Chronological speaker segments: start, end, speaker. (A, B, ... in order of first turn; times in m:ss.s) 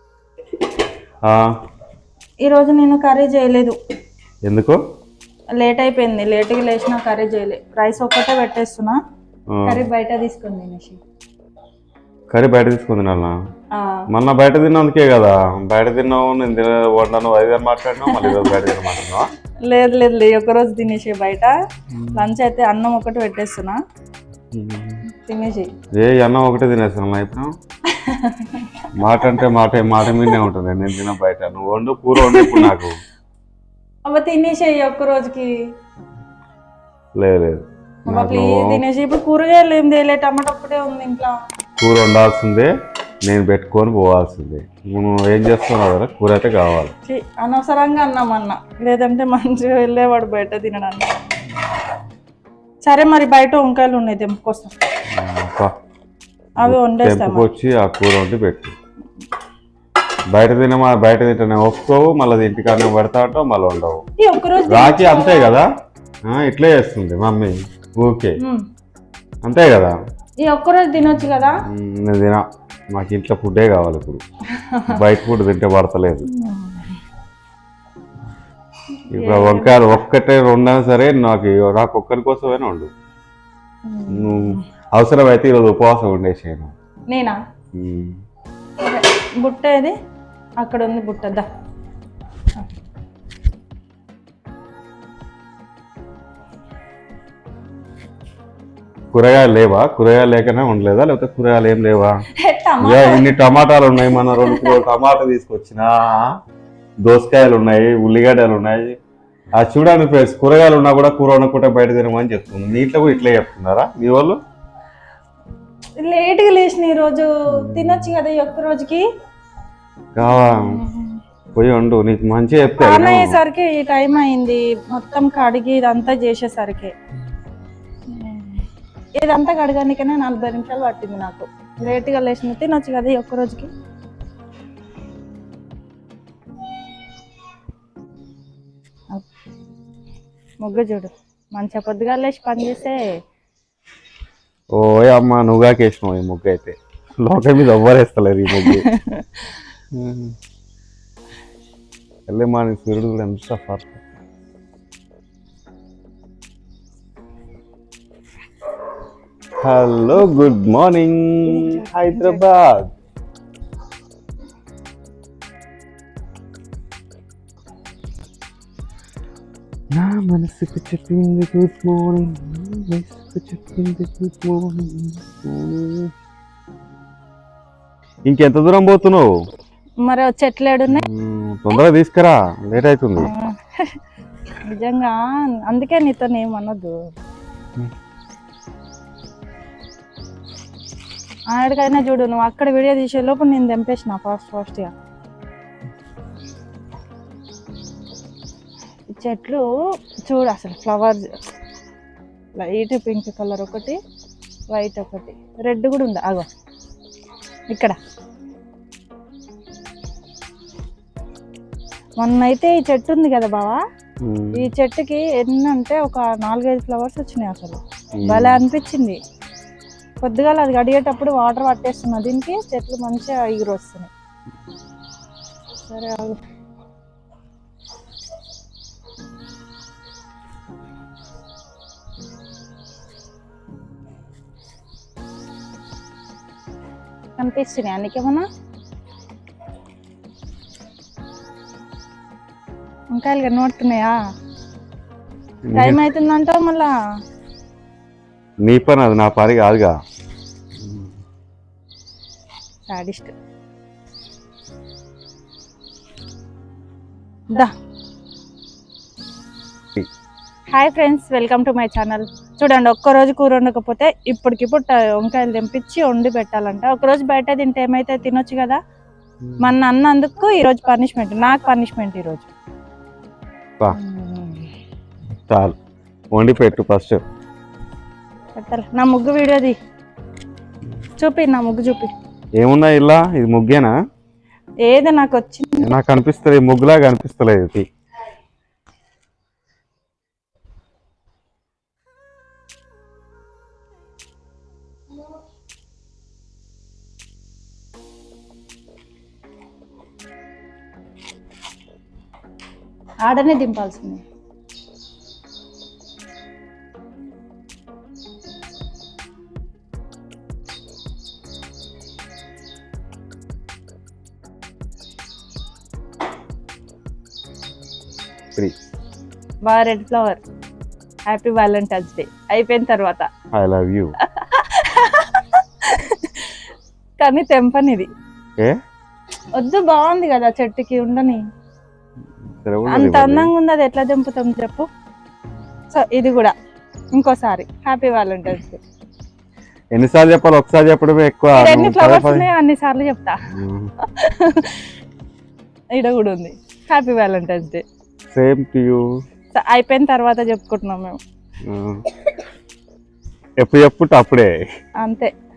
0:02.4-0:03.8 A
0:04.5-0:04.8 B
0:05.6-0:09.0 A
0:09.5-0:09.8 B
0:09.7-0:11.0 A
0:12.3-0:13.3 B
0:13.7-0:14.0 A
0:14.1-0:19.3 B
0:18.1-0:18.6 A
0:19.7-0:21.6 A
0:21.9-0:22.3 B
0:22.1-0:23.8 A
0:24.5-0:25.0 B
0:25.1-0:25.7 A
0:26.0-0:27.5 B
0:27.9-0:28.8 A
0:29.0-0:33.0 B
0:30.1-0:30.4 A
0:32.2-0:32.7 A
0:34.1-0:35.6 A
0:37.2-0:38.8 B
0:38.1-0:41.4 A
0:41.8-0:42.7 B
0:43.3-0:47.0 B
0:47.1-0:51.1 A
0:52.8-0:54.9 A
0:55.1-0:55.7 B
0:56.6-0:57.5 A
0:56.6-0:58.8 B
1:00.3-1:04.0 B
1:04.2-1:05.6 A
1:04.6-1:05.7 B
1:06.3-1:08.4 B
1:08.4-1:08.6 A
1:09.4-1:10.0 B
1:10.4-1:11.6 A
1:11.7-1:14.2 B
1:14.6-1:15.0 A
1:14.9-1:16.3 B
1:16.3-1:17.0 A
1:19.1-1:20.0 A
1:19.1-1:22.9 B
1:23.9-1:24.7 A
1:24.1-1:26.7 B
1:27.1-1:27.4 A
1:27.8-1:28.2 B
1:28.8-1:30.0 A
1:30.6-1:31.5 A
1:39.1-1:42.2 B
1:42.4-1:43.3 A
1:42.8-1:46.3 B
1:44.1-1:44.8 A
1:47.0-1:49.0 B
1:49.6-1:54.4 B
1:56.0-1:59.0 A
1:57.6-1:58.1 B
2:00.2-2:00.8 B
2:00.2-2:01.2 A
2:01.6-2:03.4 B
2:02.7-2:06.9 A
2:08.1-2:08.6 A
2:09.2-2:13.7 A
2:20.6-2:23.0 A
2:24.8-2:28.8 B
2:28.6-2:29.5 A
2:29.9-2:30.4 B
2:32.3-2:34.0 B
2:39.6-2:42.9 B
2:41.4-2:42.4 A
2:50.0-2:56.1 B
2:58.3-2:59.3 B
3:00.0-3:01.0 A
3:00.9-3:03.3 B
3:03.2-3:04.0 A
3:04.6-3:07.0 A
3:11.5-3:14.9 A
3:19.1-3:19.6 A
3:20.3-3:21.4 A
3:22.6-3:24.0 A
3:24.7-3:26.5 A
3:27.7-3:28.0 A
3:32.2-3:33.8 A
3:34.2-3:34.7 B
3:34.6-3:39.2 A
3:38.2-3:38.6 B
3:40.2-3:44.1 A
3:45.8-3:46.4 A
3:57.4-3:58.5 A
4:03.1-4:04.2 A
4:05.7-4:06.0 B
4:05.7-4:06.9 A
4:08.6-4:09.9 B
4:10.8-4:11.1 B
4:12.9-4:13.3 A
4:20.7-4:28.8 A
4:29.5-4:29.7 B
4:29.6-4:32.5 A
4:34.0-4:34.7 A
4:35.5-4:35.8 B
4:36.3-4:37.2 B
4:38.6-4:39.8 A
4:41.2-4:42.1 A
4:42.6-4:43.9 B
4:44.9-4:45.9 A
4:45.8-4:47.9 B
5:03.2-5:04.2 A
5:19.7-5:20.4 A
5:21.3-5:23.3 A
5:23.5-5:24.1 B
5:24.3-5:26.5 A
5:27.2-5:28.1 A
5:29.6-5:31.4 A
5:32.6-5:33.5 B
5:32.9-5:34.9 A
5:35.9-5:36.5 A
5:37.1-5:38.8 A
5:39.9-5:42.5 B
5:41.5-5:43.4 A
5:43.5-5:43.9 B
5:44.0-5:44.8 A
5:46.0-5:47.8 A
5:48.3-5:49.0 B
5:49.5-5:51.2 A
5:51.7-5:52.0 B
5:53.6-5:54.5 B
5:55.0-5:55.3 A